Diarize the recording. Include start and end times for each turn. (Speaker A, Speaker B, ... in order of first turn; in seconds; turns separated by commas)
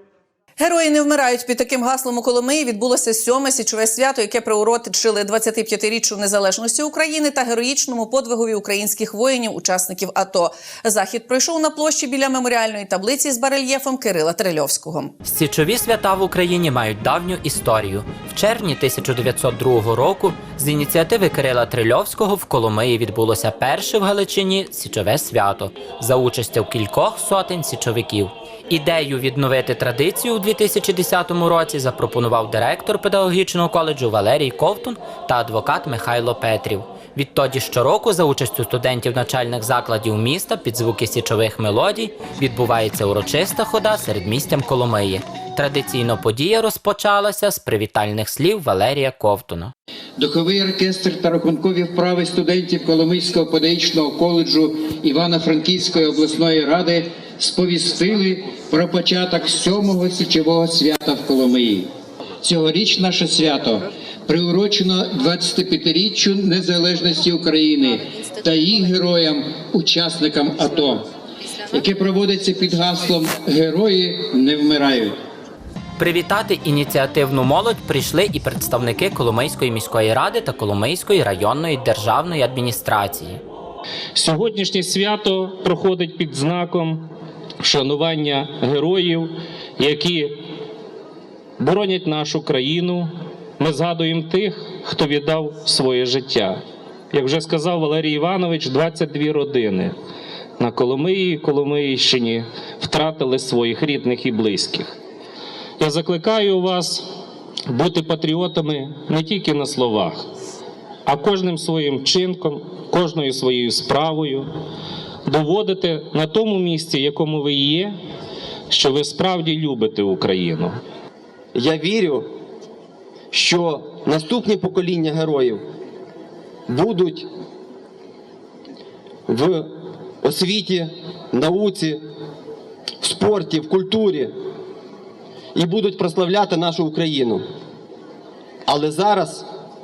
Speaker A: 0.6-15.1, Speaker B: 15.2-49.7, Speaker C: 50.2-61.9, Speaker C: 62.4-71.0, Speaker C: 71.7-75.2, Speaker B: 76.0-83.4, Speaker D: 84.1-87.0, Speaker D: 87.6-90.4, Speaker D: 91.6-96.6, Speaker D: 97.1-99.9, Speaker D: 100.6-104.9, Speaker D: 105.8-107.1, Speaker D: 107.7-110.2, Speaker D: 111.0-114.5, Speaker D: 115.2-118.0, Speaker D: 118.7-120.8, Speaker E: 121.5-122.3, Speaker E: 123.3-125.6, Speaker E: 126.7-127.3, Speaker E: 129.3-132.0, Speaker E: 133.0-134.3, Speaker E: 135.5-137.5, Speaker E: 138.7-139.4